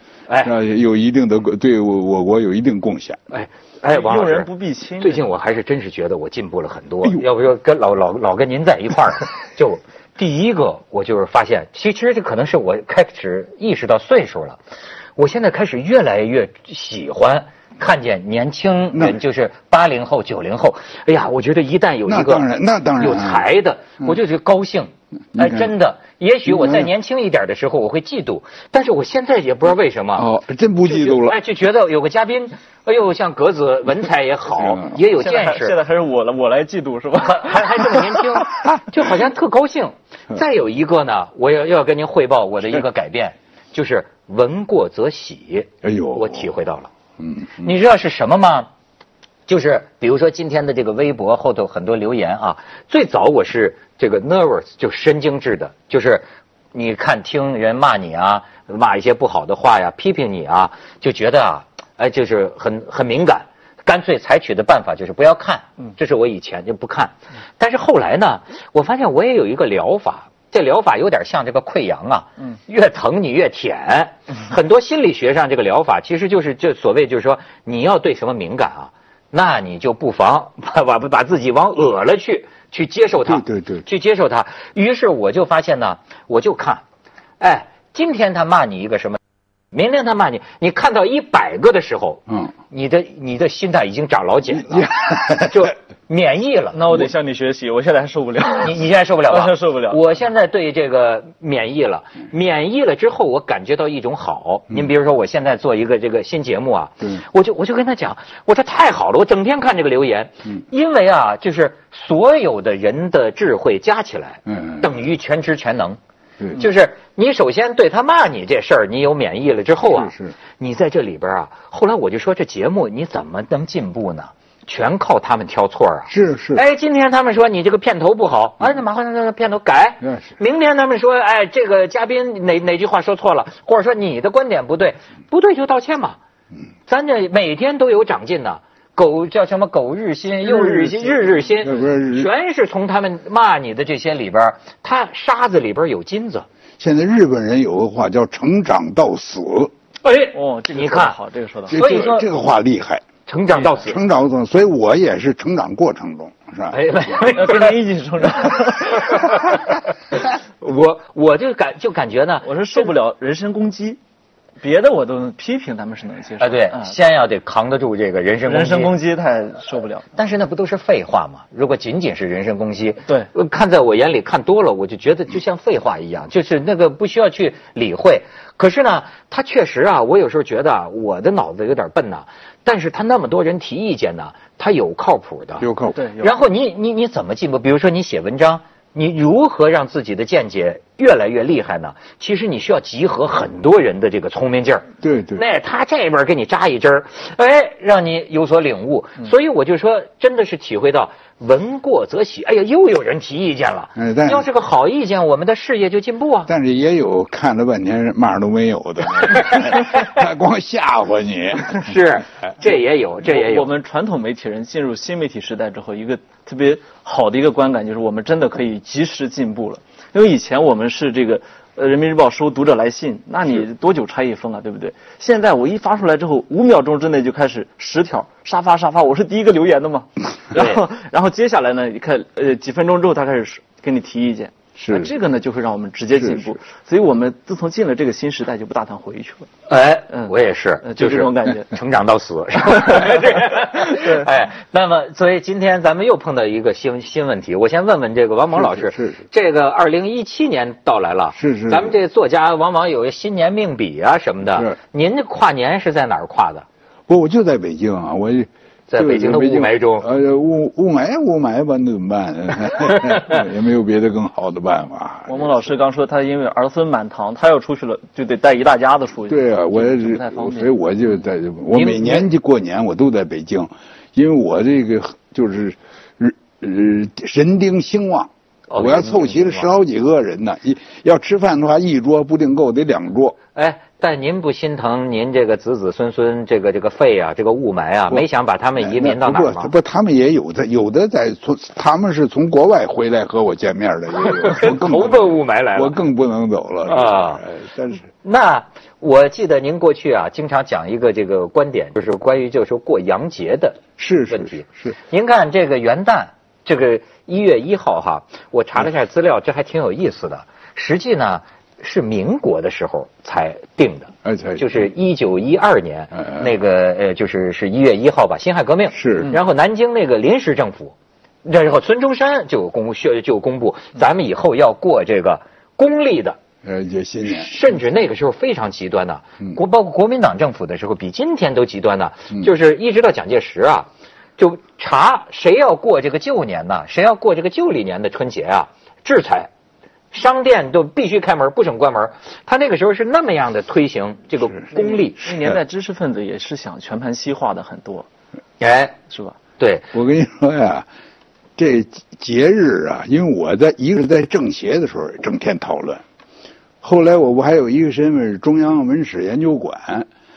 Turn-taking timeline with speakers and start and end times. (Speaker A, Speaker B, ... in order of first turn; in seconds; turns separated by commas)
Speaker A: 0.3-0.5, Speaker B: 0.4-3.2, Speaker A: 3.3-4.5, Speaker C: 3.9-5.2, Speaker A: 5.0-14.6, Speaker A: 15.2-22.4, Speaker B: 18.9-19.2, Speaker B: 22.1-23.4, Speaker A: 23.0-30.3, Speaker B: 25.3-25.7, Speaker B: 26.5-26.9, Speaker B: 30.2-31.4, Speaker A: 30.9-35.8, Speaker B: 34.6-34.9, Speaker C: 35.0-38.2, Speaker A: 37.2-46.9, Speaker B: 45.8-46.5, Speaker B: 47.2-47.7, Speaker A: 47.6-48.7, Speaker A: 49.5-86.8, Speaker B: 83.2-83.9, Speaker A: 87.4-89.2, Speaker A: 89.7-96.9, Speaker B: 94.6-95.7, Speaker C: 96.7-100.0, Speaker A: 98.6-116.0, Speaker B: 114.5-114.9, Speaker A: 116.5-136.2, Speaker B: 119.9-120.3, Speaker B: 126.1-126.6, Speaker B: 130.0-130.3, Speaker A: 136.9-146.5, Speaker B: 140.7-141.0, Speaker B: 141.6-142.3, Speaker B: 146.8-149.7, Speaker A: 150.0-151.2, Speaker C: 150.3-151.8, Speaker B: 151.7-156.8, Speaker A: 151.7-152.3, Speaker A: 153.3-154.0, Speaker A: 156.7-157.8, Speaker C: 157.2-159.4, Speaker A: 159.1-159.6, Speaker A: 160.1-162.5, Speaker C: 162.4-164.0, Speaker C: 164.6-167.0, Speaker A: 166.4-169.0, Speaker C: 168.4-170.1, Speaker A: 170.2-185.7, Speaker B: 185.6-186.0, Speaker C: 186.0-186.3, Speaker A: 186.2-206.5, Speaker B: 195.0-195.4, Speaker B: 204.0-204.5, Speaker B: 206.5-211.9, Speaker A: 211.8-213.7, Speaker C: 213.2-239.5, Speaker B: 234.8-235.1, Speaker B: 236.2-236.5, Speaker A: 239.7-256.6, Speaker C: 240.1-241.8, Speaker C: 242.7-244.3, Speaker B: 248.5-249.2, Speaker B: 251.3-252.0, Speaker B: 257.1-265.6, Speaker A: 258.9-260.1, Speaker C: 265.3-270.7, Speaker B: 269.3-283.4, Speaker A: 271.7-272.3, Speaker A: 278.7-279.6, Speaker A: 283.6-289.7, Speaker B: 288.8-298.1, Speaker A: 294.2-295.9, Speaker A: 296.9-297.4, Speaker A: 298.2-326.4, Speaker B: 304.0-305.0, Speaker B: 314.2-314.8, Speaker B: 316.2-316.4, Speaker B: 318.9-319.4, Speaker B: 326.6-327.5, Speaker A: 327.3-339.5, Speaker A: 340.1-345.2, Speaker C: 344.7-348.1, Speaker A: 348.6-348.9, Speaker C: 349.1-349.4, Speaker A: 349.6-349.9, Speaker B: 349.9-350.9, Speaker B: 351.6-356.0, Speaker B: 356.8-360.1